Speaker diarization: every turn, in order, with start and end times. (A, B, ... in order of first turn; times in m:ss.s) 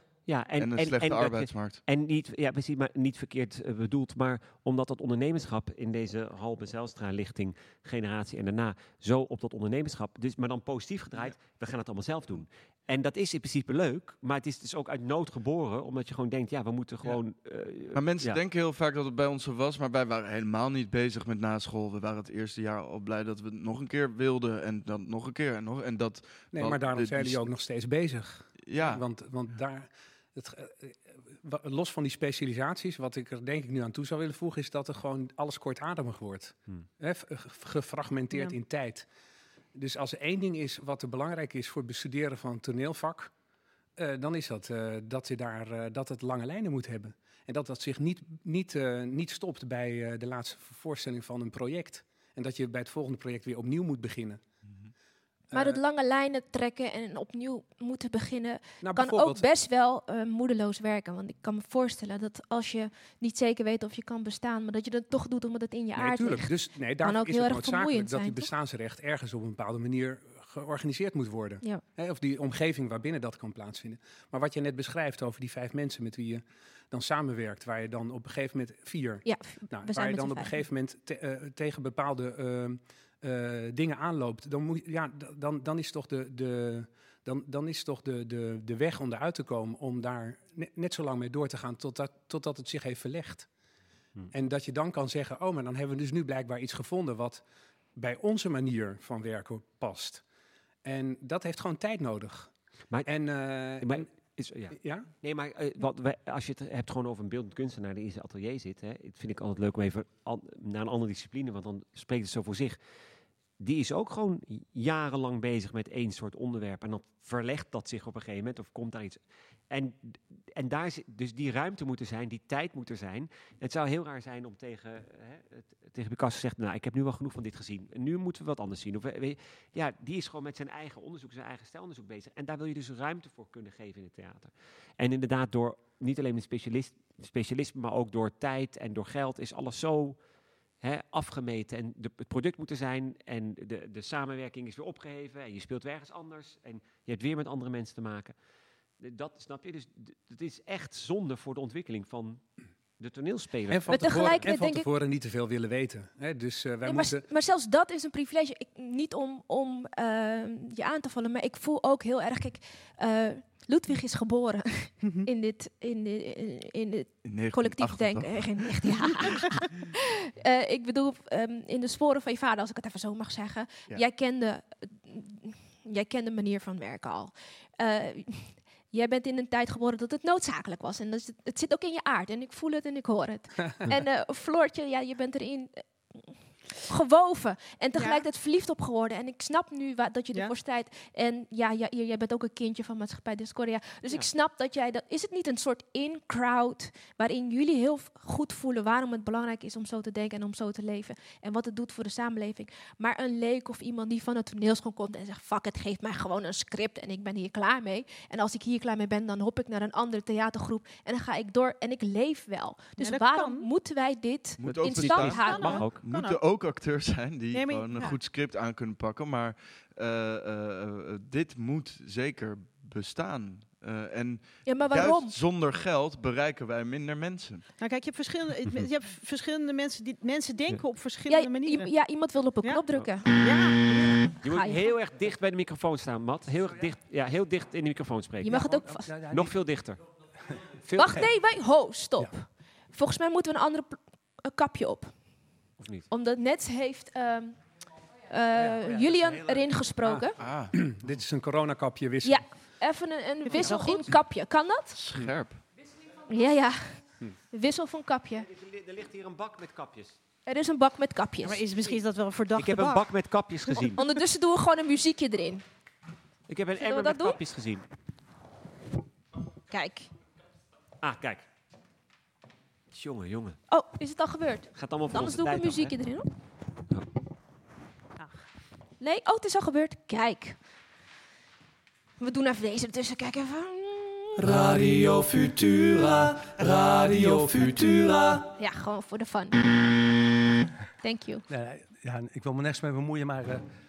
0:00.2-0:18.4 A
0:00.6-0:01.8 B
0:17.9-0:27.5 B
0:26.5-0:39.1 C
0:28.6-0:29.0 B
0:39.7-0:43.3 C
0:44.0-0:54.4 C
0:55.5-0:55.8 C
0:55.5-1:08.5 D
0:58.8-0:59.4 C
1:06.0-1:33.5 C
1:19.2-1:20.6 D
1:34.3-1:37.4 C
1:38.0-1:40.2 C
1:40.8-1:42.5 C
1:43.0-1:44.1 C
1:43.7-1:52.8 A
1:44.7-1:45.1 C
1:53.6-2:20.2 A
2:20.8-2:28.3 A
2:29.0-2:32.4 A
2:33.0-2:34.4 A
2:33.7-2:37.2 C
2:33.9-2:34.9 D
2:36.8-2:49.8 D
2:45.0-2:45.3 E
2:47.2-2:48.9 B
2:50.4-3:35.8 D
3:08.0-3:08.2 E
3:33.0-3:33.7 E
3:34.6-3:47.6 B
3:34.6-3:36.0 A
3:35.2-3:36.4 E
3:37.5-3:38.1 E
3:44.6-3:45.3 D
3:47.8-3:51.9 E
3:51.3-3:53.3 D
3:52.6-3:54.3 E
3:54.4-3:54.8 D
3:54.4-3:58.6 A
3:58.4-3:59.1 D
3:58.4-3:59.6 F
3:59.3-4:00.0 A
4:00.9-4:01.2 C
4:00.9-4:05.1 D
4:05.8-4:06.1 A
4:06.1-4:07.6 D
4:08.3-4:10.3 D
4:08.8-4:09.2 F
4:10.0-4:12.4 C
4:10.4-4:10.8 B
4:12.2-4:15.0 D
4:13.4-4:14.1 E
4:14.9-4:15.6 B
4:16.3-4:18.5 D
4:18.5-4:20.2 A
4:20.4-4:21.6 D
4:21.4-4:23.2 E
4:22.6-4:24.0 A
4:24.0-4:25.6 D
4:26.5-4:27.8 A
4:26.8-4:27.4 D
4:29.7-4:30.0 D
4:31.0-4:31.4 A
4:32.9-4:33.6 A
4:33.7-4:36.2 D
4:34.7-4:35.9 A
4:39.0-4:40.6 D
4:42.2-4:44.3 D
4:44.4-4:48.5 G
4:48.6-4:49.6 D
4:51.0-4:51.4 D
4:51.5-4:53.6 F